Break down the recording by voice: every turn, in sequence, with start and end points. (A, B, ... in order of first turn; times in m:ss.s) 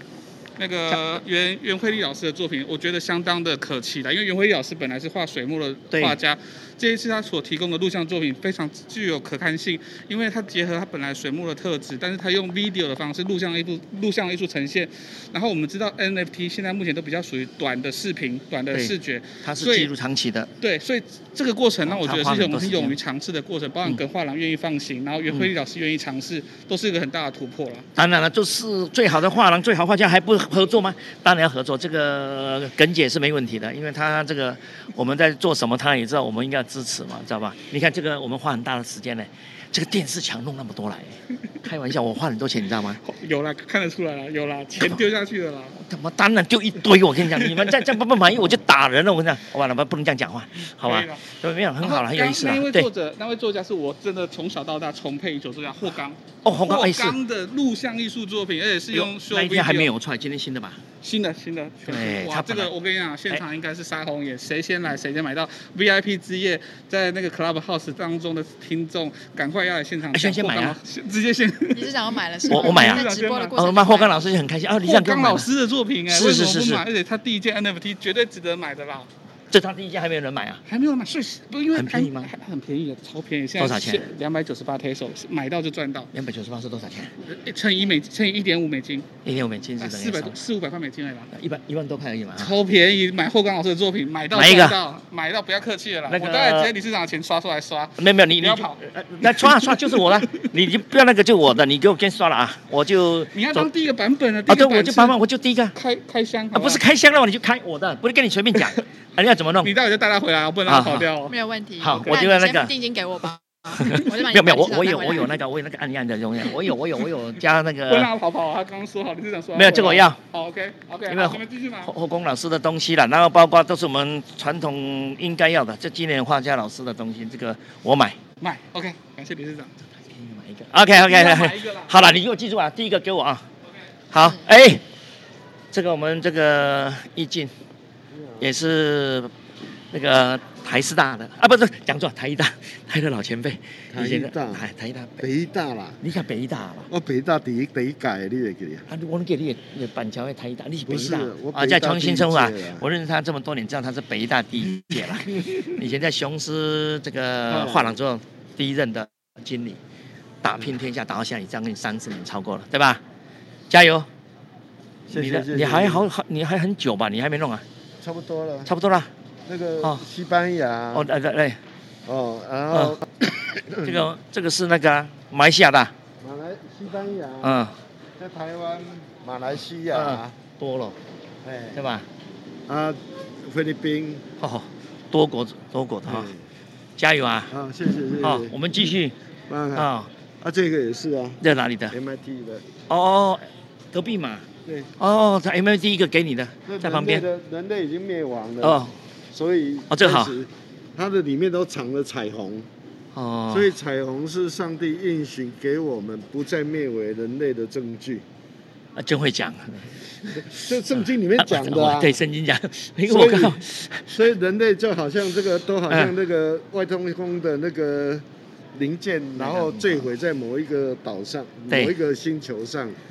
0:00.6-0:19.9 A
0:00.9-0:01.2 B
0:05.9-0:06.2 B
0:18.7-0:20.5 B
0:20.6-0:27.9 A
0:21.8-0:23.0 B
0:28.0-0:43.0 B
0:43.0-0:45.8 A
0:44.8-0:45.0 B
0:45.8-0:52.9 B
0:50.8-0:51.2 A
0:51.8-0:59.9 A
0:56.4-0:57.2 B
0:58.9-1:00.8 B
1:01.0-1:13.6 A
1:01.8-1:02.7 B
1:10.1-1:10.8 B
1:11.7-1:14.2 C
1:12.5-1:15.5 B
1:14.8-1:19.1 A
1:16.1-1:16.8 B
1:19.5-1:20.6 B
1:20.7-1:26.1 A
1:21.7-1:22.3 B
1:23.6-1:24.1 B
1:26.1-1:27.1 B
1:27.3-1:29.1 A
1:29.2-1:30.4 B
1:29.8-1:31.3 A
1:31.3-1:32.6 B
1:32.4-1:40.4 A
1:34.3-1:34.8 B
1:36.1-1:36.7 B
1:38.0-1:43.7 B
1:43.3-1:45.2 A
1:44.5-1:45.8 B
1:45.8-1:46.8 A
1:46.5-1:49.8 B
1:49.6-1:51.3 A
1:50.6-1:51.1 B
1:51.3-1:55.4 C
1:51.8-1:52.7 B
1:53.8-1:58.1 B
1:57.9-2:01.9 A
1:59.6-2:00.2 B
2:01.1-2:08.2 B
2:08.4-2:09.7 A
2:10.0-2:13.4 B
2:11.0-2:11.9 A
2:14.1-2:14.8 B
2:15.7-2:17.5 B
2:18.1-2:18.5 D
2:18.4-2:19.3 B
2:19.9-2:25.3 B
2:23.9-2:24.6 D
2:25.2-2:26.0 D
2:26.0-2:26.9 B
2:26.9-2:28.9 D
2:28.9-2:39.8 B
2:30.9-2:32.8 D
2:37.5-2:37.9 D
2:40.4-2:43.0 B
2:43.7-2:44.1 B
2:45.1-2:46.1 D
2:45.1-2:47.6 B
2:48.0-2:48.7 D
2:48.6-2:49.1 B
2:49.5-2:51.1 D
2:50.9-2:51.6 B
2:52.1-2:53.0 D
2:52.7-2:53.0 B
2:53.6-2:54.0 D
2:53.8-2:55.9 B
2:56.2-2:57.6 D
2:57.4-2:57.8 B
2:58.2-3:00.3 D
2:59.9-3:01.0 B
3:01.4-3:01.8 D
3:01.7-3:02.1 B
3:02.7-3:04.2 D
3:04.4-3:06.3 B
3:06.0-3:06.4 D
3:07.0-3:07.5 B
3:07.5-3:08.6 D
3:08.2-3:09.2 B
3:09.5-3:09.9 D
3:09.7-3:10.1 B
3:10.4-3:11.4 D
3:11.4-3:12.0 B
3:11.9-3:12.6 D
3:12.9-3:14.5 B
3:15.0-3:17.2 B
3:16.7-3:22.7 D
3:18.6-3:19.0 B
3:19.9-3:20.4 B
3:23.1-3:23.7 B
3:23.5-3:28.2 D
3:29.0-3:30.6 B
3:30.5-3:32.1 D
3:31.4-3:34.2 B
3:33.1-3:33.6 D
3:34.1-3:43.0 D
3:35.9-3:36.2 B
3:39.4-3:40.1 B